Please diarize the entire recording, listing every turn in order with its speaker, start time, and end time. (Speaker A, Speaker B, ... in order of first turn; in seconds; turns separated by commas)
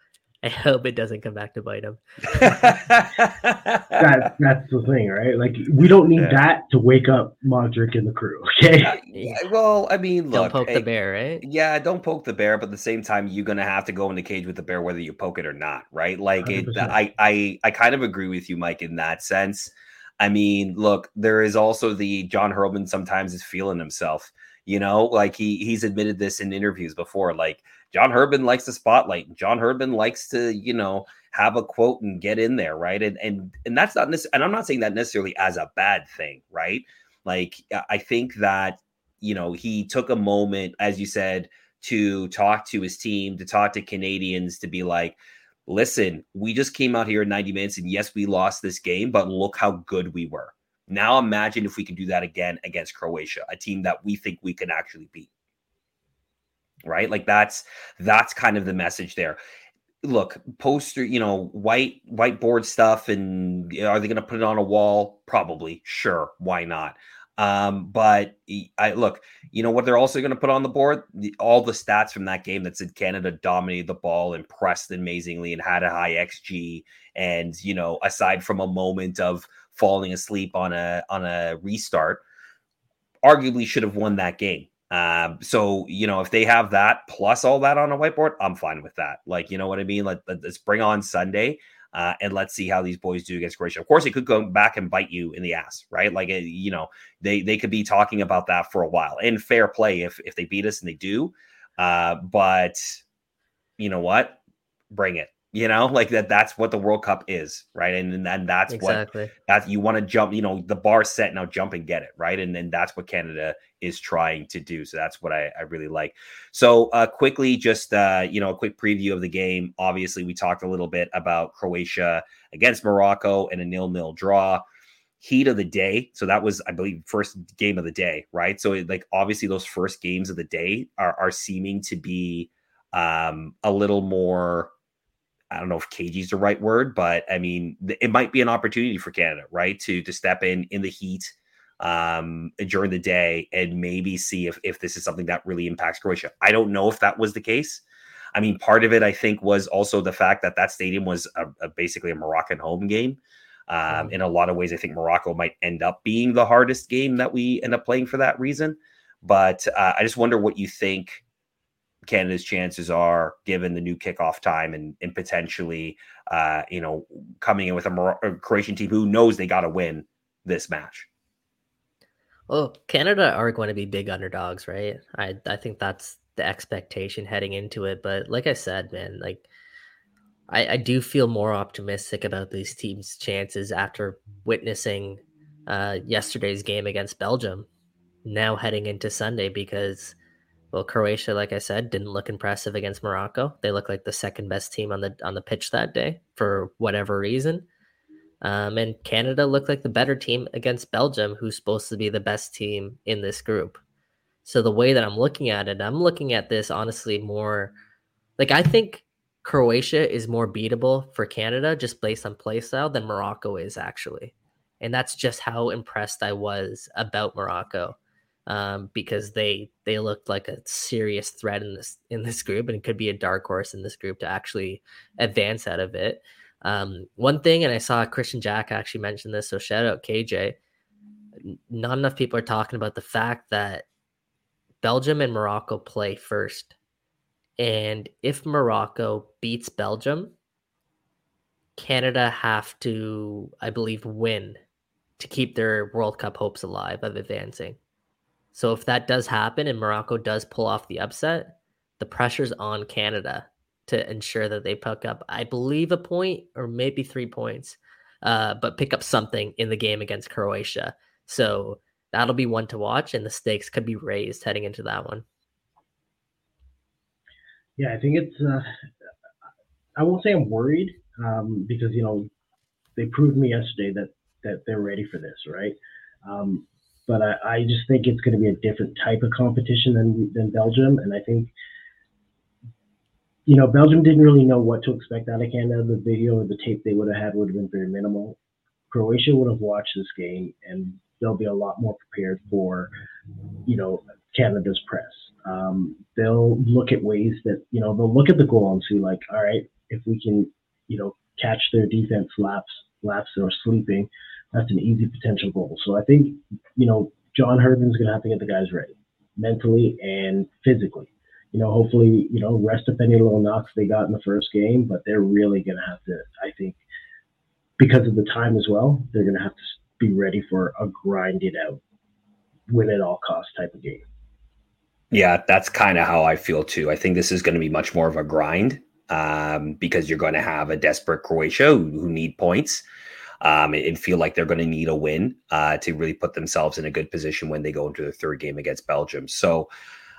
Speaker A: 0.4-2.5, Speaker B: 2.3-4.1, Speaker C: 4.0-9.0, Speaker B: 6.2-6.4, Speaker B: 8.8-10.8, Speaker A: 9.1-9.4, Speaker A: 10.3-11.4, Speaker B: 11.4-55.3, Speaker C: 16.4-17.0, Speaker B: 56.8-59.4, Speaker B: 60.0-82.2, Speaker B: 83.2-103.0, Speaker B: 103.8-104.4, Speaker B: 104.9-124.6, Speaker A: 108.7-109.3, Speaker B: 125.2-134.7, Speaker B: 135.5-147.8, Speaker B: 148.3-161.2, Speaker A: 153.9-154.2, Speaker B: 162.1-171.1, Speaker A: 172.5-179.5, Speaker A: 180.5-187.7, Speaker A: 188.2-190.2, Speaker A: 190.7-197.7, Speaker A: 198.4-203.8, Speaker A: 204.4-207.7, Speaker A: 208.4-230.6, Speaker A: 231.4-233.9, Speaker A: 234.8-236.8, Speaker A: 237.6-240.3, Speaker A: 241.8-244.6, Speaker A: 245.2-247.8, Speaker A: 248.5-265.2, Speaker C: 267.8-268.6, Speaker C: 270.0-272.3, Speaker C: 273.0-281.5, Speaker C: 283.5-288.4, Speaker C: 288.9-292.9, Speaker C: 293.7-316.8, Speaker C: 317.8-321.8, Speaker C: 322.7-324.1, Speaker B: 325.1-332.8, Speaker B: 333.4-339.7